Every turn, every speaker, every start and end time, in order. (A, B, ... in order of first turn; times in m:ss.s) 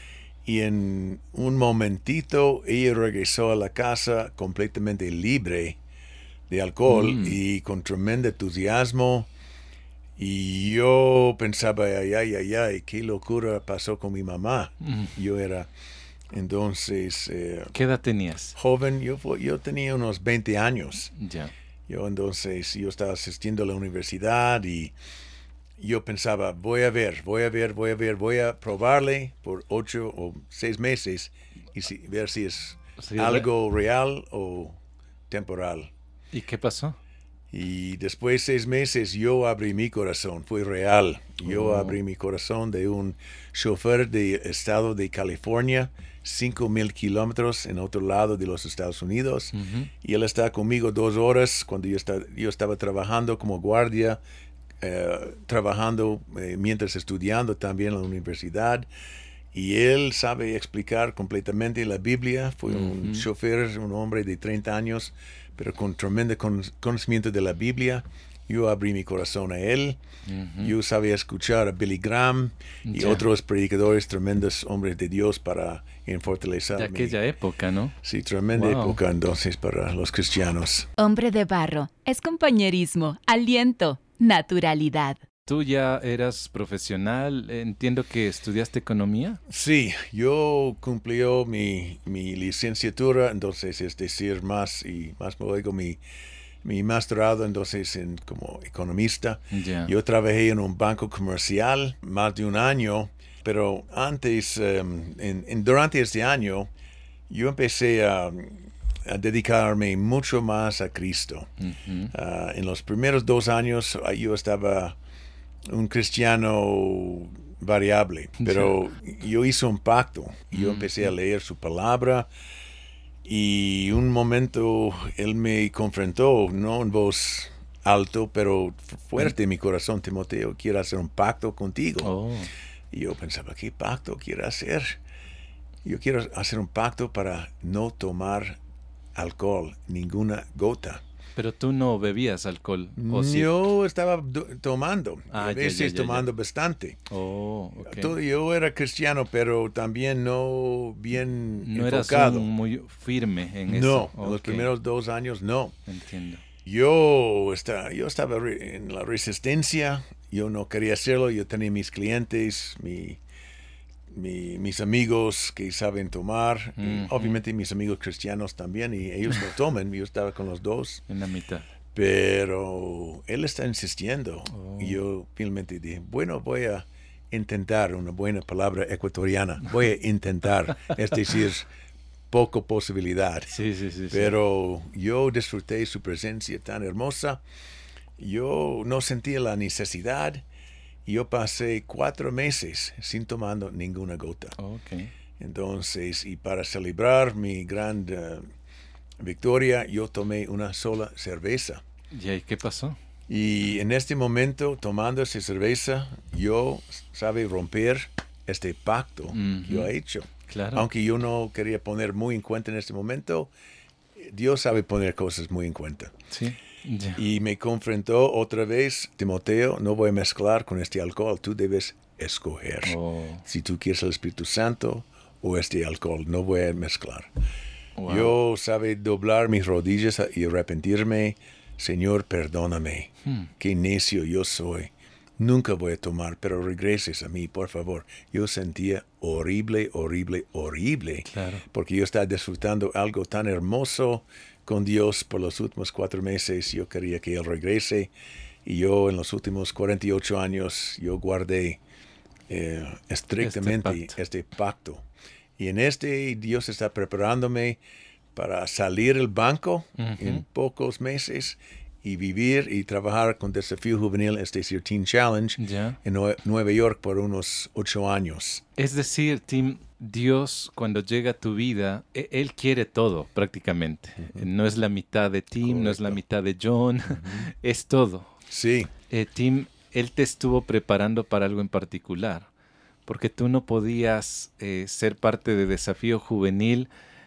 0:00.4-0:05.8 A
0:06.5-0:09.3 A
0:06.9-0:07.4 B
0:10.2-0:15.7 A
0:16.3-0:17.7 A
0:17.7-0:18.6 B
0:18.6-0:21.1 A
0:21.2-0:21.5 B
0:21.9-0:25.0 A
0:25.8-0:34.8 A
0:33.0-0:33.5 B
0:35.3-0:35.9 A
0:36.3-0:37.0 B
0:37.5-0:54.2 A
0:41.4-0:42.0 B
0:49.5-0:49.9 B
0:54.8-0:58.9 A
0:59.5-1:10.0 A
1:02.7-1:03.2 B
1:10.3-1:10.7 B
1:10.6-1:17.2 A
1:12.9-1:13.2 B
1:16.8-1:18.0 B
1:18.0-1:20.9 A
1:18.6-1:19.0 B
1:21.0-1:25.2 C
1:25.5-1:29.4 B
1:29.5-1:36.0 A
1:36.6-1:46.7 A
1:39.5-1:39.9 B
1:47.3-1:51.5 A
1:51.6-1:52.1 B
1:52.1-1:55.0 A
1:55.7-2:02.3 A
1:58.4-1:58.7 B
2:00.5-2:00.9 B
2:03.2-2:12.1 A
2:12.0-2:12.5 B
2:12.9-2:15.0 A
2:15.8-2:18.6 A
2:19.2-2:21.0 A
2:21.4-2:23.6 B
2:23.0-2:27.0 A
2:25.3-2:26.3 B
2:27.1-2:28.1 B
2:27.8-2:32.5 A
2:31.6-2:34.7 B
2:33.7-2:35.8 A
2:35.9-2:36.4 B
2:36.6-2:43.2 A
2:44.1-2:51.0 A
2:46.8-2:47.4 B
2:51.1-2:51.7 B
2:51.9-3:01.7 A
2:54.5-2:55.0 B
3:02.3-3:03.6 A
3:03.5-3:04.3 B
3:04.1-3:07.4 A
3:08.2-3:10.4 A
3:11.1-3:14.6 A
3:14.6-3:15.1 B
3:15.4-3:18.5 A
3:19.2-3:21.8 A
3:22.1-3:23.0 B
3:23.3-3:33.5 A
3:29.3-3:29.9 B
3:30.5-3:30.9 B
3:34.2-3:36.2 A
3:36.3-3:37.2 B
3:37.2-3:47.3 A
3:42.8-3:43.4 B
3:48.0-3:48.3 B
3:48.1-4:08.1 A
3:53.2-3:53.5 B
4:01.3-4:01.6 B
4:08.6-4:11.8 A
4:12.5-4:15.0 A
4:13.4-4:14.1 B
4:15.6-4:17.8 A
4:18.3-4:28.6 A
4:20.0-4:20.4 B
4:25.6-4:26.0 B
4:28.8-4:38.3 B
4:34.2-4:34.5 A
4:35.6-4:36.2 A
4:37.1-4:37.5 A
4:38.5-4:38.9 A
4:39.1-4:42.5 B
4:43.1-4:46.9 B